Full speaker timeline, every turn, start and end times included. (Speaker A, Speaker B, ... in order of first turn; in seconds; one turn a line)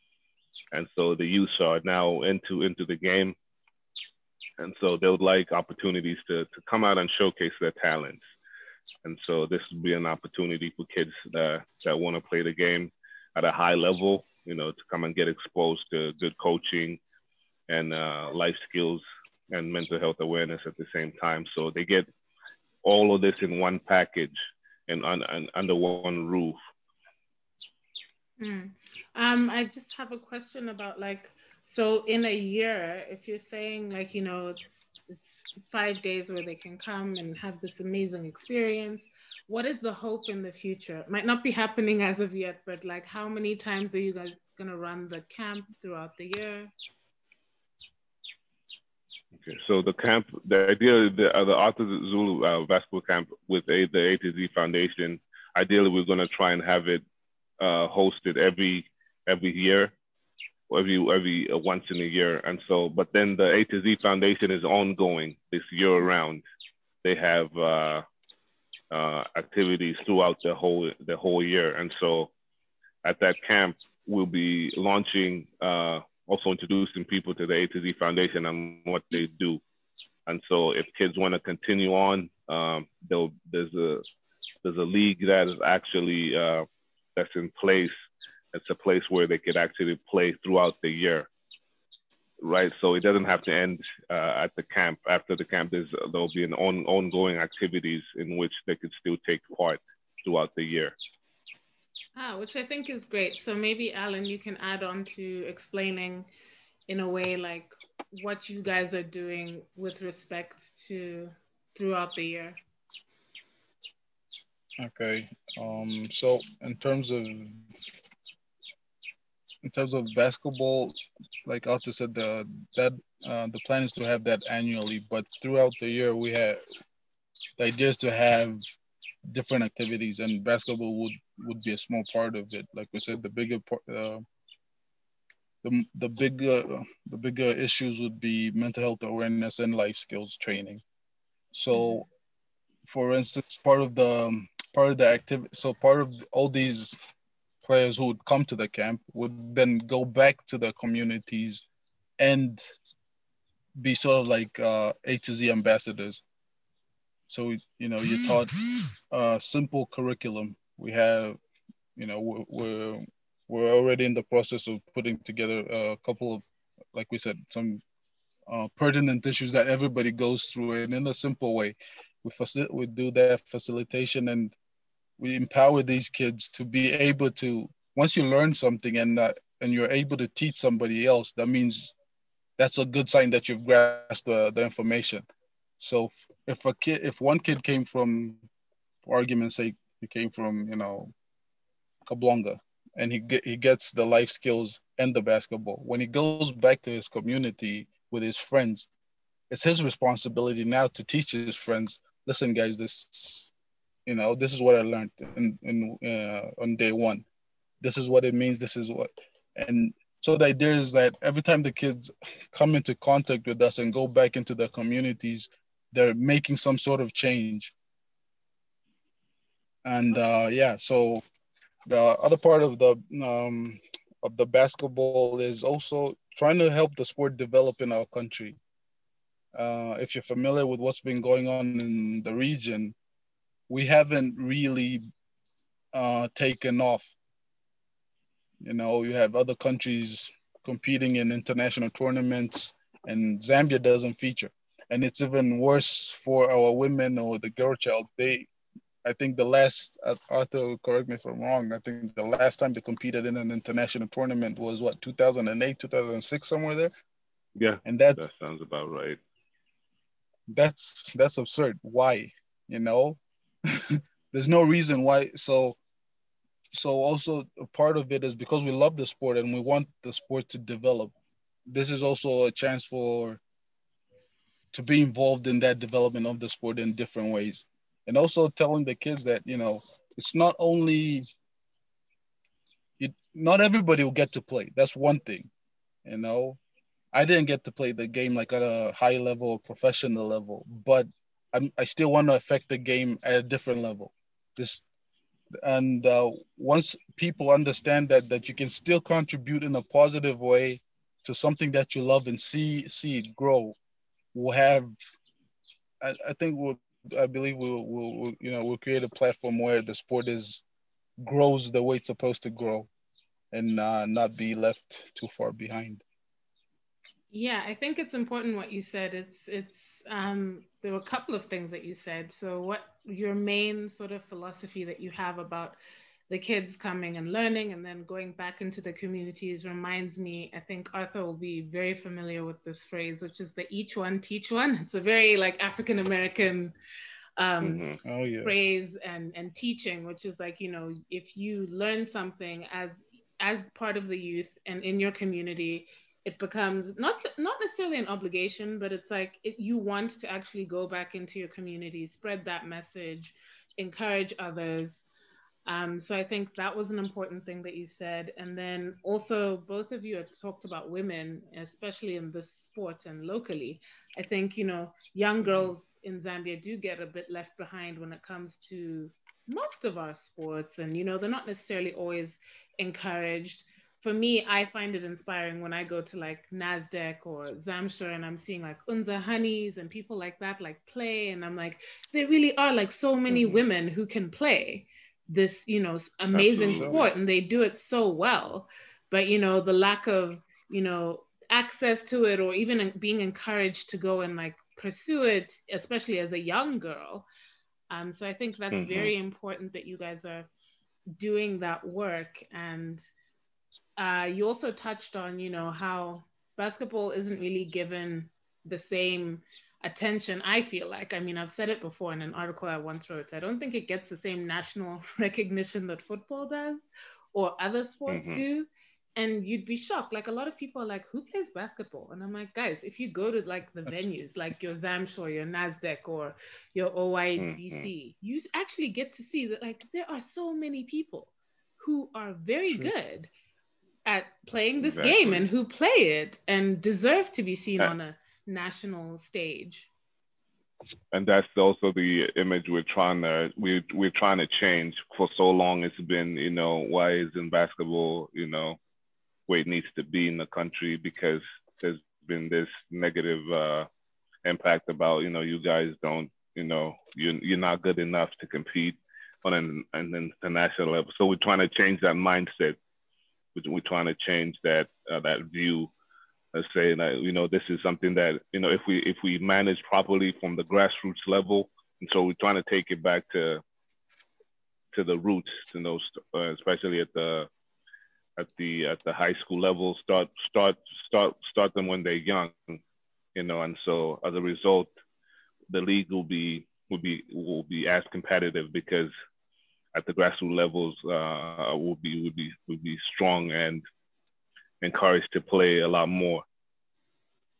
Speaker A: 0.7-3.3
Speaker A: 4.6-8.2
Speaker A: 9.0-17.0
Speaker A: 17.7-22.1
Speaker A: 22.8-24.3
Speaker A: 24.9-26.6
Speaker B: 28.4-46.7
Speaker A: 49.4-57.0
Speaker A: 57.6-59.9
Speaker A: 60.7-66.4
Speaker A: 67.0-68.0
Speaker A: 68.9-72.3
Speaker A: 73.0-79.6
Speaker A: 80.3-84.0
Speaker A: 84.6-87.9
Speaker A: 88.5-91.3
Speaker A: 92.4-101.0
Speaker B: 102.2-106.3
Speaker B: 106.9-112.6
Speaker C: 114.8-117.7
Speaker C: 119.6-126.6
Speaker C: 127.6-128.6
Speaker C: 129.2-134.2
Speaker C: 135.6-140.8
Speaker C: 141.5-142.1
Speaker B: 141.7-142.0
Speaker C: 142.8-151.6
Speaker C: 152.2-152.8
Speaker C: 153.8-156.2
Speaker C: 157.3-158.5
Speaker C: 159.1-161.4
Speaker C: 161.9-167.8
Speaker C: 168.5-174.6
Speaker C: 175.2-181.9
Speaker C: 182.6-185.2
Speaker C: 185.8-188.4
Speaker C: 189.0-191.1
Speaker C: 192.1-198.9
Speaker C: 199.5-203.5
Speaker C: 204.1-207.2
Speaker C: 207.8-217.7
Speaker C: 219.8-221.2
Speaker C: 221.9-228.6
Speaker C: 229.5-232.9
Speaker C: 233.7-235.1
Speaker C: 235.9-237.1
Speaker C: 238.6-248.5
Speaker C: 249.0-256.9
Speaker A: 257.6-259.2
Speaker C: 257.8-258.2
Speaker C: 260.5-263.2
Speaker C: 263.7-265.8
Speaker C: 266.7-271.1
Speaker C: 271.7-273.4
Speaker C: 274.7-281.3
Speaker C: 283.0-285.5
Speaker C: 286.0-286.6
Speaker C: 287.1-294.8
Speaker C: 295.6-303.8
Speaker C: 304.3-304.9
Speaker C: 306.0-310.6
Speaker C: 311.2-312.9
Speaker C: 313.5-316.0
Speaker B: 317.3-325.8
Speaker B: 326.3-336.7
Speaker B: 337.4-337.8
Speaker A: 337.6-338.0
Speaker C: 338.0-338.5
Speaker B: 338.4-355.1
Speaker B: 355.6-397.2
Speaker A: 386.3-387.1
Speaker C: 386.7-387.1
Speaker B: 397.9-400.5
Speaker A: 398.7-399.1
Speaker B: 401.2-403.0
Speaker B: 404.0-433.3
Speaker A: 418.1-418.4
Speaker A: 427.4-427.9
Speaker C: 432.7-432.9
Speaker B: 434.1-439.9
Speaker A: 434.8-435.4
Speaker A: 441.1-448.8
Speaker A: 449.5-453.9
Speaker A: 454.4-462.8
Speaker A: 463.5-465.9
Speaker A: 466.5-473.6
Speaker A: 474.9-477.5
Speaker A: 478.4-482.8
Speaker A: 483.3-484.9
Speaker A: 485.7-489.1
Speaker A: 489.9-493.8
Speaker A: 494.8-496.4